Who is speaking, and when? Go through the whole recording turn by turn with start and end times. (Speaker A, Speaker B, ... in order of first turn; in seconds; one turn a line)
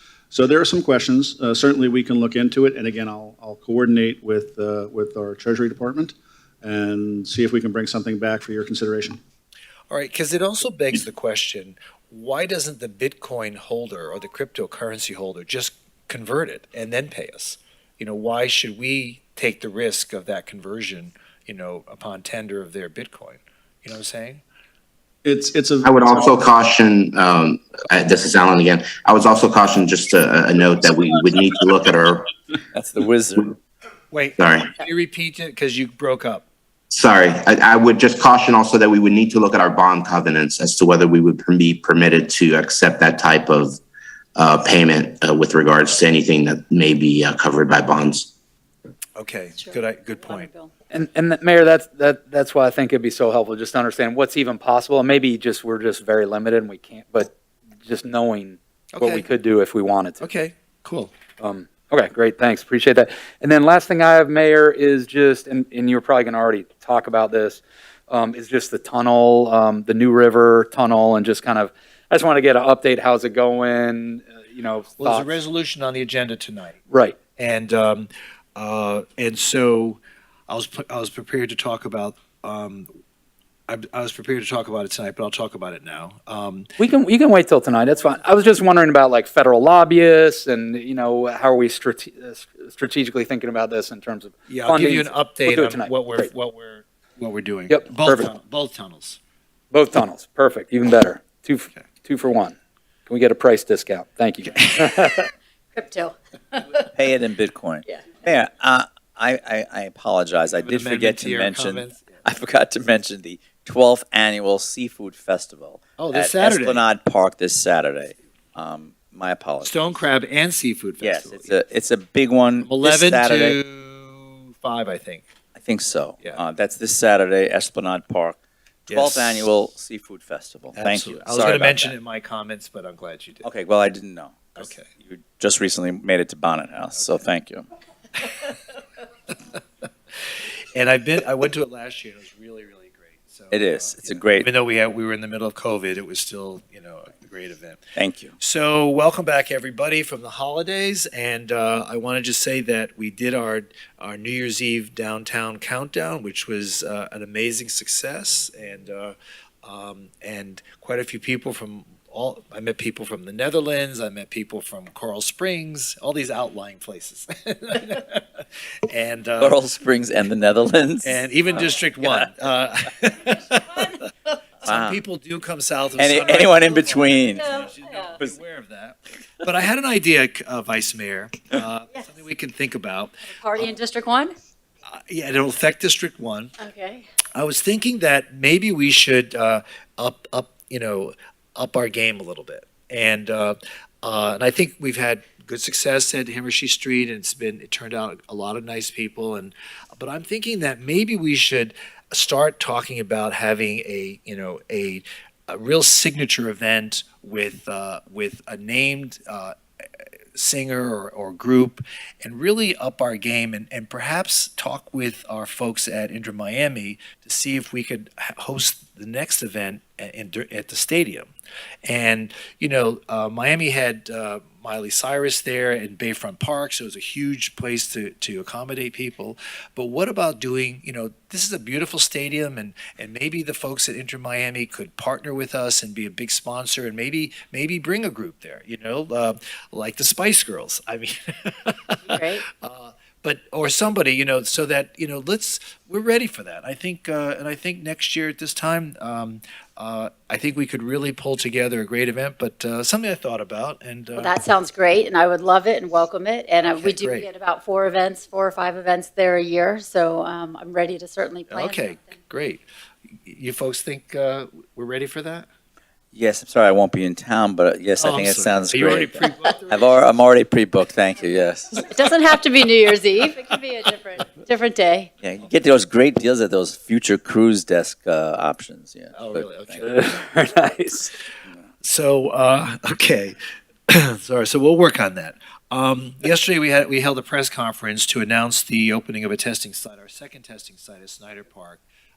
Speaker A: 0.3-9.2
Speaker B: 9.9-24.4
Speaker A: 25.2-26.3
Speaker C: 25.8-32.3
Speaker D: 32.7-33.6
Speaker B: 34.1-36.5
Speaker C: 34.4-34.7
Speaker C: 36.9-43.8
Speaker C: 44.4-48.3
Speaker B: 49.1-50.5
Speaker E: 49.6-50.8
Speaker F: 50.9-57.3
Speaker F: 57.8-60.3
Speaker B: 58.9-59.3
Speaker B: 60.2-61.1
Speaker F: 61.4-75.3
Speaker B: 74.9-76.8
Speaker F: 76.9-77.2
Speaker B: 77.3-82.9
Speaker B: 83.7-86.7
Speaker F: 86.8-96.3
Speaker B: 94.5-99.2
Speaker F: 97.7-98.3
Speaker F: 99.7-102.5
Speaker F: 103.1-105.3
Speaker E: 105.7-106.9
Speaker D: 106.9-119.8
Speaker E: 107.8-108.1
Speaker B: 110.5-112.2
Speaker B: 116.0-116.8
Speaker B: 119.6-121.6
Speaker D: 121.0-123.6
Speaker B: 122.6-125.2
Speaker D: 125.5-131.9
Speaker B: 128.9-129.5
Speaker B: 130.8-133.5
Speaker D: 133.4-137.7
Speaker B: 134.6-134.9
Speaker B: 140.7-147.8
Speaker D: 143.5-144.5
Speaker D: 147.9-148.3
Speaker B: 148.4-169.6
Speaker D: 169.4-171.2
Speaker B: 171.0-174.1
Speaker D: 172.0-172.3
Speaker B: 174.6-183.7
Speaker D: 174.7-175.0
Speaker D: 176.0-177.6
Speaker E: 177.3-178.1
Speaker E: 183.3-184.3
Speaker B: 184.9-186.5
Speaker E: 186.6-187.1
Speaker B: 187.3-209.5
Speaker B: 210.3-221.3
Speaker B: 221.8-254.3
Speaker E: 242.1-242.4
Speaker E: 254.2-262.0
Speaker B: 256.6-257.3
Speaker B: 261.5-265.5
Speaker D: 266.1-272.0
Speaker B: 268.0-270.1
Speaker E: 271.9-275.1
Speaker D: 275.2-279.8
Speaker B: 279.1-279.9
Speaker F: 279.8-281.1
Speaker B: 281.8-283.4
Speaker B: 283.9-291.8